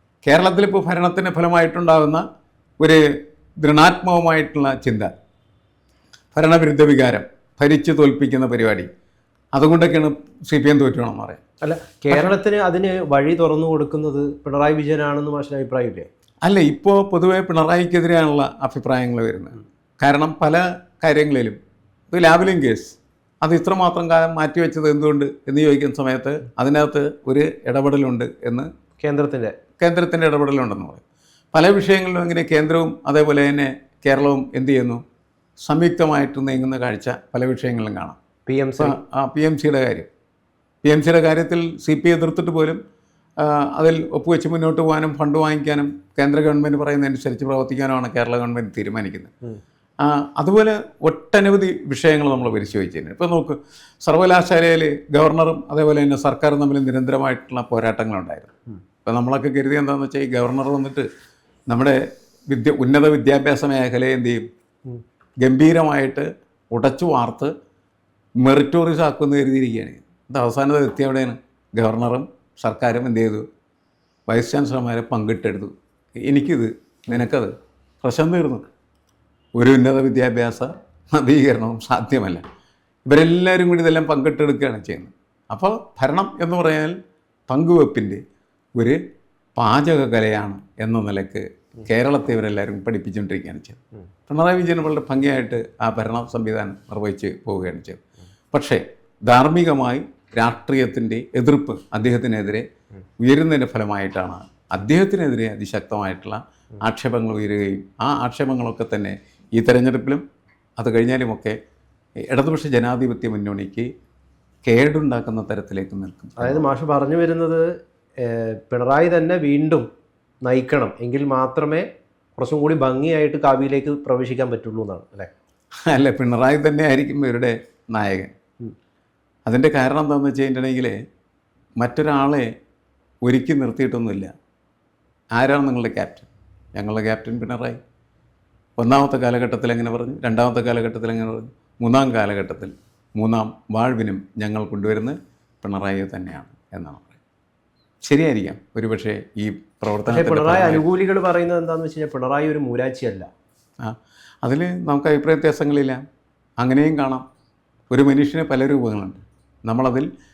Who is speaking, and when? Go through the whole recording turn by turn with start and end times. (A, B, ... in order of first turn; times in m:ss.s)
0:00.2-0:02.2 A
0:02.8-0:05.1 A
0:06.3-0:08.9 A
0:09.6-0:11.4 A
0:11.6-0:16.1 B
0:16.4-0:21.6 A
0:22.1-0:28.7 A
0:29.0-0:29.6 B
0:29.8-0:35.0 A
0:35.6-0:38.2 A
0:38.5-0:39.0 B
0:38.8-0:40.1 A
0:40.8-0:42.8 A
0:43.4-0:49.3 A
0:50.0-0:58.5 A
0:59.0-1:01.1 A
1:01.7-1:04.4 A
1:05.4-1:07.5 A
1:08.4-1:13.4 A
1:14.3-1:15.7 A
1:16.2-1:18.6 A
1:19.6-1:22.4 A
1:23.1-1:27.0 A
1:27.5-1:28.2 A
1:29.6-1:38.0 A
1:38.5-1:42.7 A
1:43.2-1:50.2 A
1:50.8-1:51.6 A
1:52.2-1:53.9 A
1:54.6-1:56.6 A
1:56.4-1:57.7 B
1:58.2-1:59.9 B
2:00.4-2:01.9 B
2:02.4-2:05.3 B
2:05.9-2:08.3 A
2:09.5-2:11.0 A
2:11.8-2:12.5 A
2:13.2-2:14.3 A
2:15.3-2:17.8 A
2:18.8-2:27.2 A
2:28.0-2:30.8 A
2:30.1-2:33.3 B
2:33.8-2:36.0 A
2:36.6-2:37.2 A
2:37.9-2:40.1 A